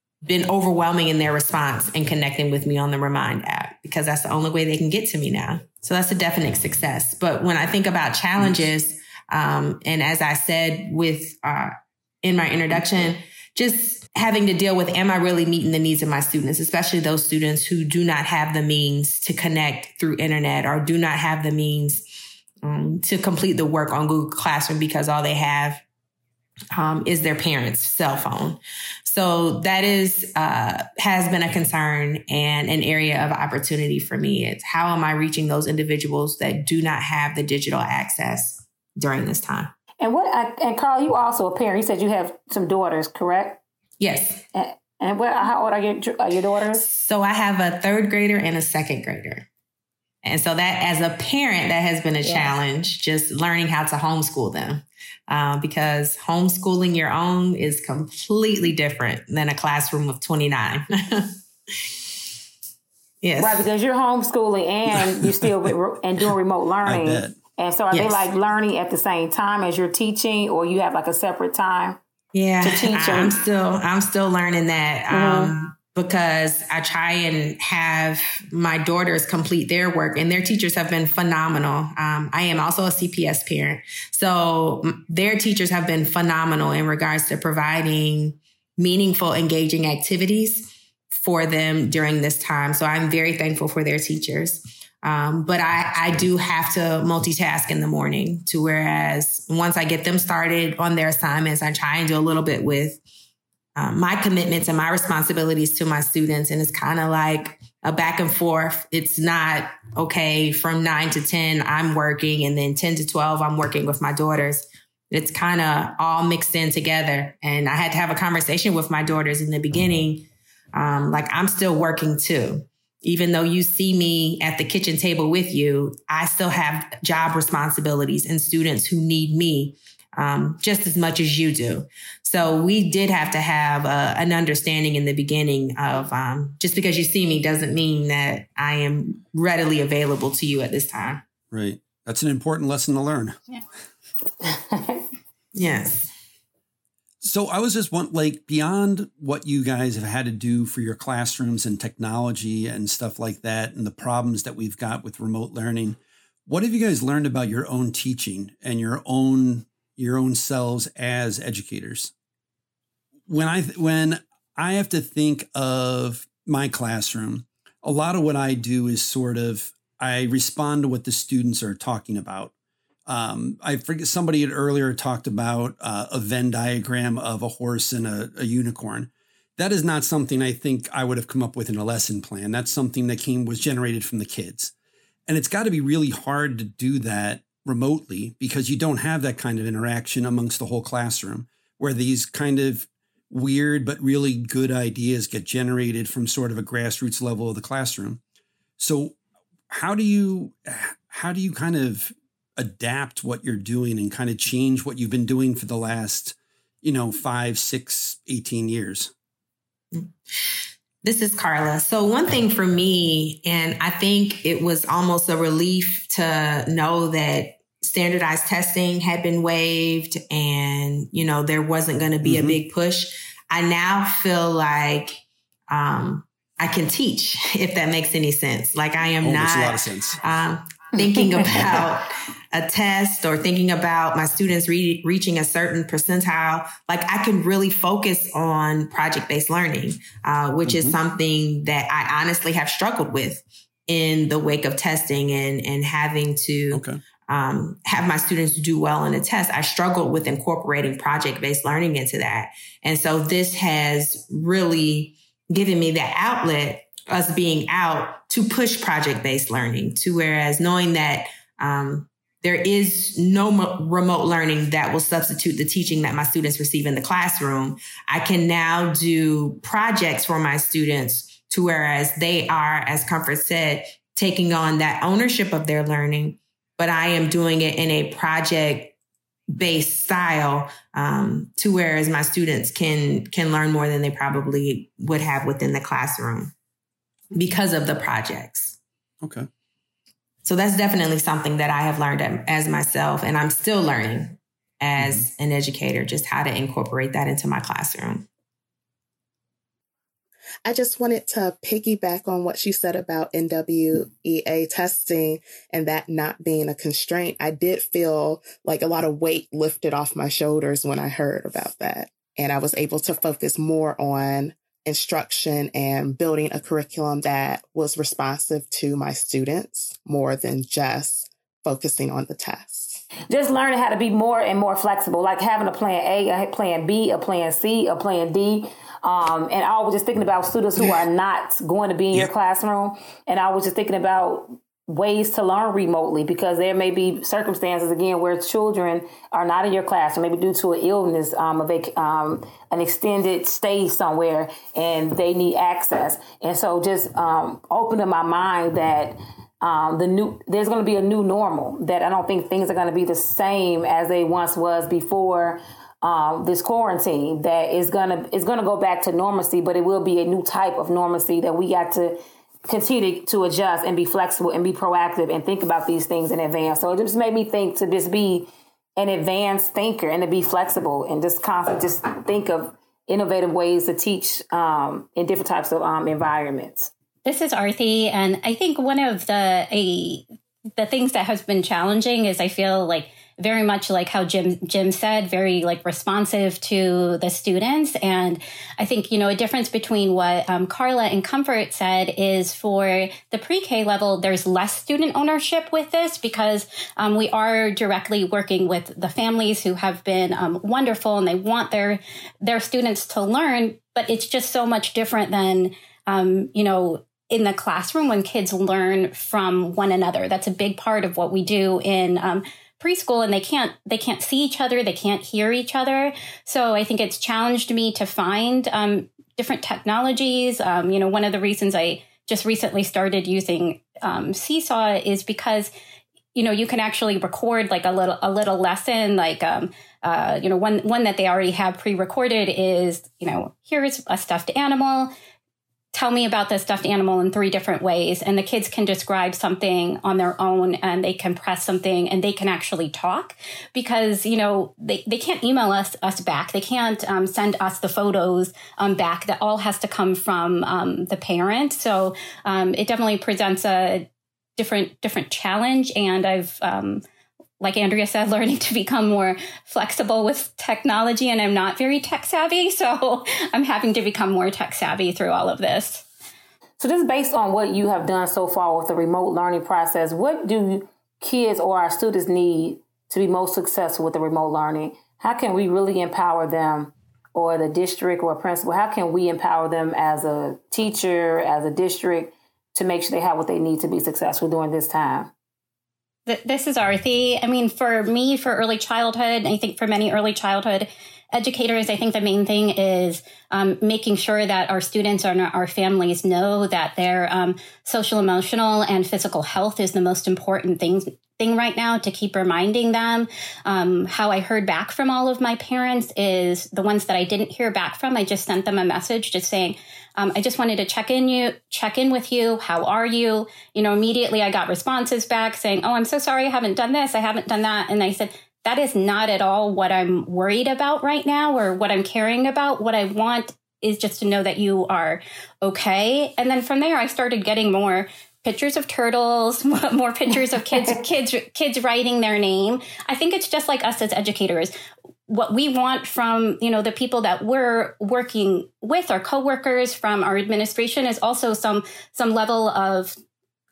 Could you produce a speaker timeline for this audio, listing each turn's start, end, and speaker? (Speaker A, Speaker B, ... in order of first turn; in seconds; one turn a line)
Speaker A: 0.2-22.1
Speaker B: 8.4-8.6
Speaker A: 22.6-25.8
Speaker A: 26.7-39.7
Speaker C: 40.0-43.6
Speaker A: 44.0-44.4
Speaker C: 44.5-46.9
Speaker A: 46.7-49.5
Speaker A: 50.2-61.9
Speaker C: 52.2-52.5
Speaker A: 63.2-63.6
Speaker C: 63.4-72.0
Speaker B: 64.9-65.7
Speaker B: 66.8-67.4
Speaker A: 67.9-68.3
Speaker A: 72.3-103.0
Speaker C: 72.6-73.3
Speaker C: 75.1-75.5
Speaker A: 103.8-141.2
Speaker B: 141.5-143.4
Speaker C: 144.4-145.1
Speaker A: 145.5-146.1
Speaker B: 147.2-162.1
Speaker B: 163.3-172.5
Speaker B: 173.1-184.7
Speaker B: 185.3-198.2
Speaker B: 198.8-199.2
Speaker B: 199.7-209.1
Speaker A: 211.0-278.9
Speaker B: 222.2-222.6
Speaker B: 229.2-230.2
Speaker C: 231.4-231.6
Speaker B: 240.7-241.0
Speaker B: 246.7-247.0
Speaker A: 279.5-286.5
Speaker A: 287.3-288.8
Speaker B: 289.2-289.5
Speaker A: 290.4-298.3
Speaker B: 295.0-295.2
Speaker D: 300.6-323.0
Speaker C: 323.3-376.9
Speaker E: 377.2-380.2
Speaker E: 380.8-425.7
Speaker E: 426.3-435.1
Speaker E: 435.9-457.0
Speaker E: 457.6-466.1
Speaker C: 466.8-485.3
Speaker E: 486.3-534.7
Speaker C: 530.5-531.0
Speaker E: 535.3-543.1